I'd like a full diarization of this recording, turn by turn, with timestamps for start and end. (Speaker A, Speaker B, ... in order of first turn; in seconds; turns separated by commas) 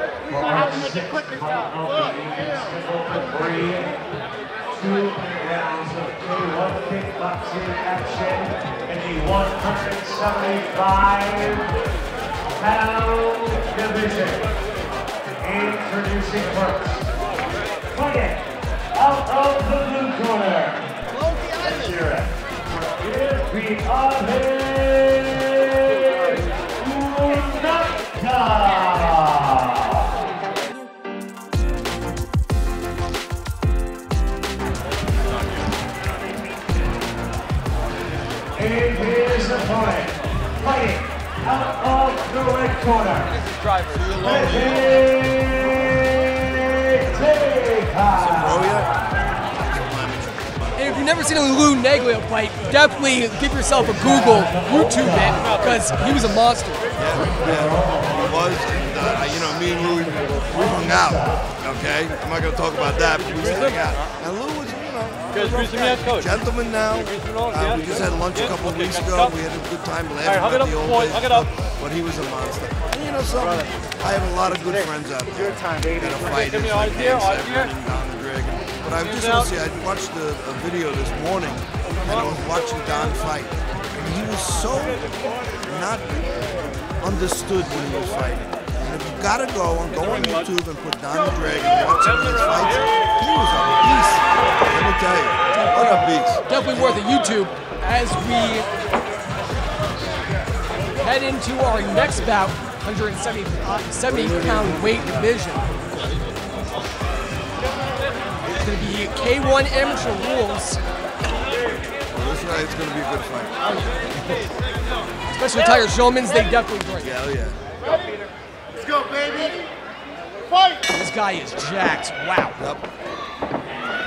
Speaker A: 0.3-4.0, Speaker B: 0.5-1.3, Speaker A: 4.7-11.7, Speaker A: 12.6-14.5, Speaker A: 15.4-17.1, Speaker A: 17.9-20.9, Speaker A: 21.6-30.3, Speaker A: 38.5-43.4, Speaker C: 43.9-44.9, Speaker A: 44.2-48.9, Speaker C: 48.1-49.0, Speaker C: 49.6-50.6, Speaker D: 50.8-56.9, Speaker A: 54.3-55.4, Speaker C: 57.0-85.1, Speaker A: 57.5-58.2, Speaker C: 85.6-96.5, Speaker D: 95.5-98.7, Speaker D: 101.0-105.7, Speaker C: 104.1-105.3, Speaker D: 108.5-110.8, Speaker C: 112.1-114.5, Speaker D: 115.3-117.2, Speaker C: 117.0-117.6, Speaker B: 117.8-119.7, Speaker B: 120.5-120.8, Speaker D: 120.9-122.6, Speaker C: 122.6-122.8